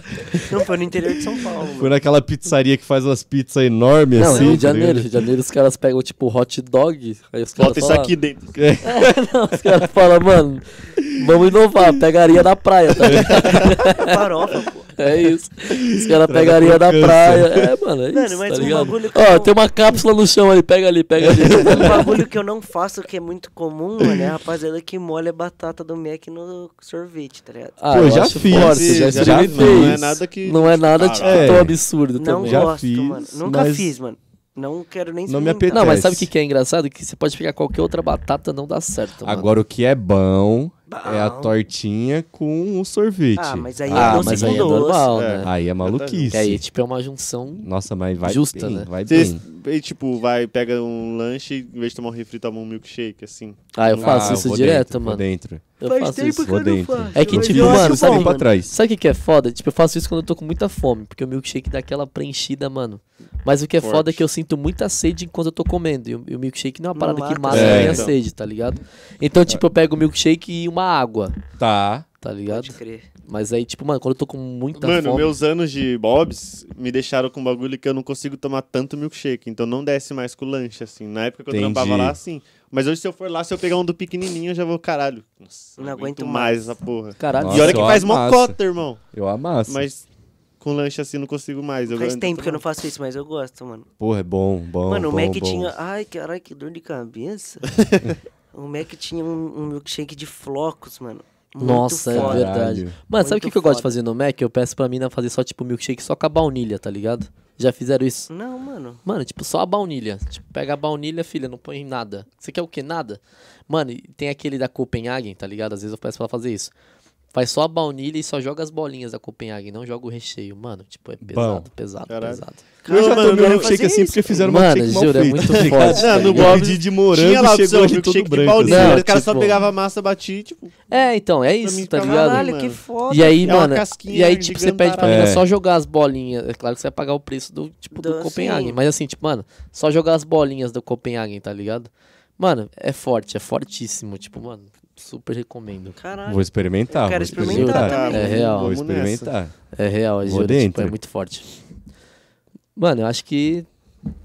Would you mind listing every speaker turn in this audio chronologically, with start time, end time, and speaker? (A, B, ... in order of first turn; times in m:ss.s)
0:00.4-0:02.0 A
0:01.7-0:05.1 B
0:04.2-0:08.1 C
0:07.6-0:08.6 D
0:08.6-0:09.1 B
0:08.8-0:14.1 C
0:11.2-0:11.9 B
0:13.0-0:13.8 B
0:13.6-0:14.9 A
0:15.0-0:22.0 C
0:15.7-0:17.7 B
0:18.1-0:19.5 A
0:21.2-0:22.0 B
0:21.6-0:28.1 A
0:27.8-0:32.7 C
0:27.9-0:30.2 B
0:28.4-0:31.7 D
0:31.2-0:31.8 B
0:32.2-0:36.0 A
0:32.4-0:33.9 B
0:35.3-0:36.3 B
0:35.7-0:39.5 C
0:39.2-0:44.8 B
0:40.9-0:41.5 A
0:43.4-0:45.2 A
0:43.9-0:45.5 C
0:45.1-0:46.3 D
0:45.4-0:46.6 B
0:46.3-0:48.9 C
0:47.6-0:49.4 B
0:49.0-0:54.4 D
0:53.7-0:55.2 C
0:54.0-0:58.7 B
0:55.8-0:56.4 C
0:55.8-0:58.5 A
0:57.1-1:11.3 C
1:03.8-1:04.2 D
1:07.0-1:08.0 A
1:07.5-1:08.1 B
1:07.5-1:08.1 D
1:11.6-1:12.0 B
1:12.2-1:15.3 C
1:12.5-1:13.1 A
1:14.8-1:29.0 D
1:21.5-1:22.2 B
1:25.8-1:26.8 A
1:27.2-1:28.0 C
1:27.4-1:29.8 B
1:29.7-1:30.0 D
1:30.6-1:32.6 D
1:31.9-1:33.9 A
1:34.0-1:35.7 B
1:34.8-1:37.6 A
1:37.7-1:38.0 D
1:38.5-1:42.5 A
1:41.6-1:48.3 C
1:42.1-1:42.9 B
1:43.2-1:43.9 A
1:48.3-1:49.0 A
1:49.0-1:56.7 C
1:57.3-2:02.6 C
2:01.2-2:01.7 B
2:02.1-2:03.7 D
2:02.8-2:04.5 A
2:02.9-2:09.2 B
2:04.4-2:06.6 C
2:05.7-2:10.7 D
2:08.6-2:09.6 C
2:10.9-2:12.5 C
2:11.6-2:12.8 D
2:12.0-2:13.6 A
2:13.1-2:26.0 C
2:13.4-2:15.3 D
2:15.0-2:15.4 B
2:17.9-2:18.8 A
2:26.0-2:28.6 A
2:26.3-2:29.5 B
2:27.4-2:28.8 C
2:27.6-2:29.3 D
2:29.7-2:31.4 C
2:30.2-2:31.0 B
2:32.8-2:33.7 C